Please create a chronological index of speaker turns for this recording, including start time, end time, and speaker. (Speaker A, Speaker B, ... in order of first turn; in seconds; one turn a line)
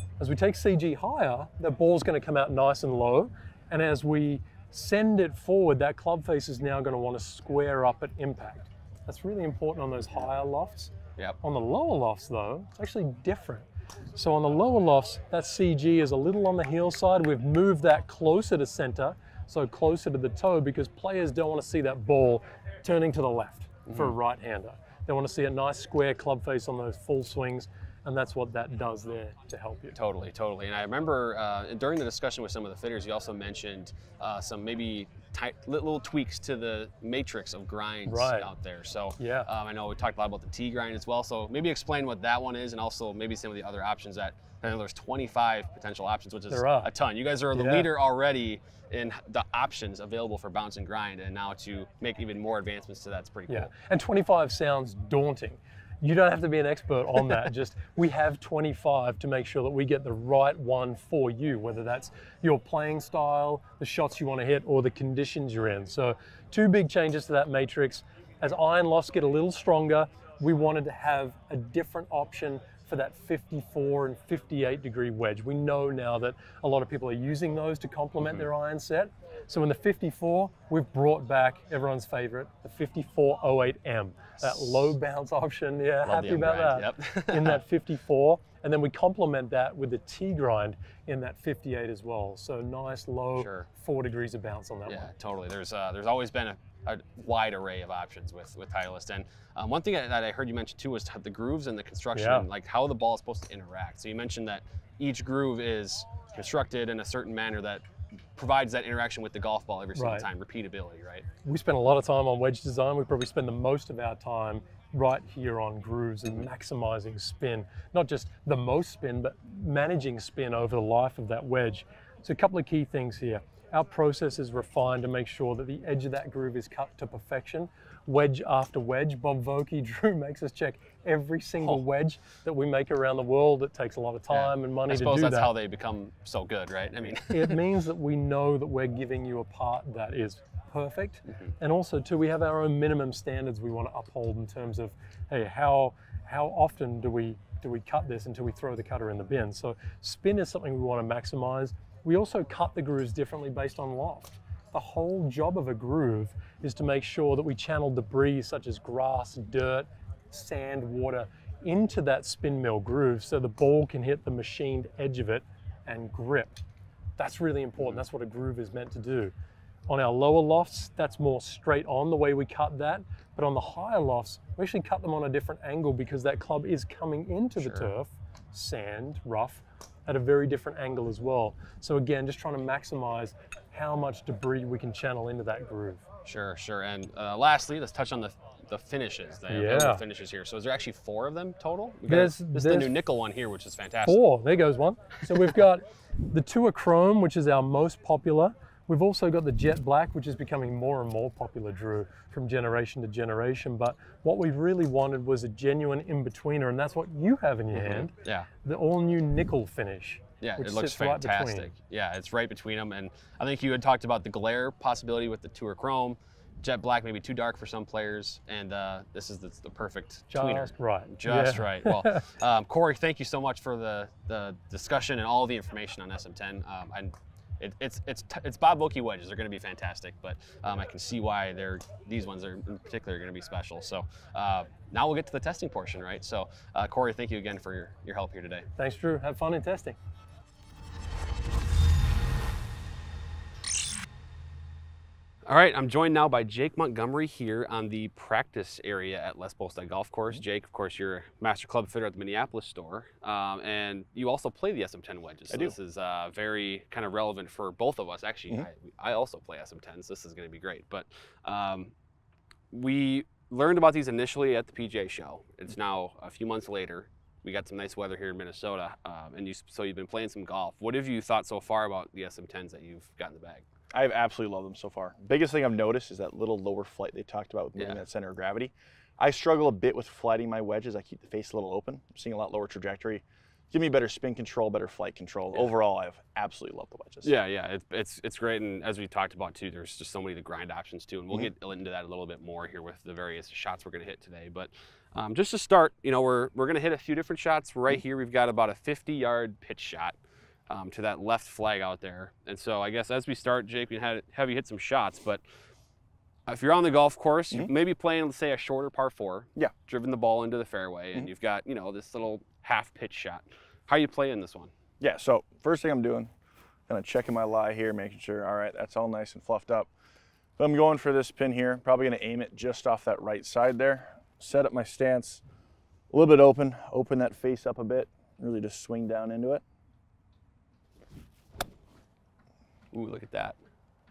Speaker A: 0.2-29.9
Speaker B: 29.9-53.7
Speaker A: 38.1-38.5
Speaker A: 39.2-39.5
Speaker A: 46.5-46.9
Speaker A: 47.5-47.9
Speaker A: 53.5-95.1
Speaker B: 78.2-78.5
Speaker B: 84.4-85.0
Speaker B: 86.0-87.6
Speaker B: 93.3-93.7
Speaker B: 94.8-107.8
Speaker A: 102.1-102.5
Speaker B: 108.3-111.2
Speaker A: 109.9-110.3
Speaker A: 111.4-135.5
Speaker B: 134.3-137.6
Speaker A: 137.1-166.6
Speaker A: 167.2-169.3
Speaker B: 167.8-168.0
Speaker A: 169.9-186.1
Speaker B: 177.6-177.9
Speaker B: 186.2-194.2
Speaker A: 189.5-190.0
Speaker A: 192.1-192.9
Speaker A: 194.0-208.1
Speaker B: 195.3-195.6
Speaker B: 207.7-208.5
Speaker A: 208.6-211.7
Speaker B: 210.4-238.7
Speaker A: 220.3-222.3
Speaker A: 238.8-240.0
Speaker B: 245.5-261.9
Speaker C: 255.5-255.8
Speaker B: 262.7-273.6
Speaker C: 273.9-287.3
Speaker B: 277.8-278.0
Speaker B: 287.2-300.1
Speaker B: 300.7-305.4
Speaker B: 306.5-314.7
Speaker C: 315.0-316.3
Speaker C: 316.9-319.9
Speaker C: 320.6-325.4
Speaker C: 326.1-329.6
Speaker B: 332.9-333.6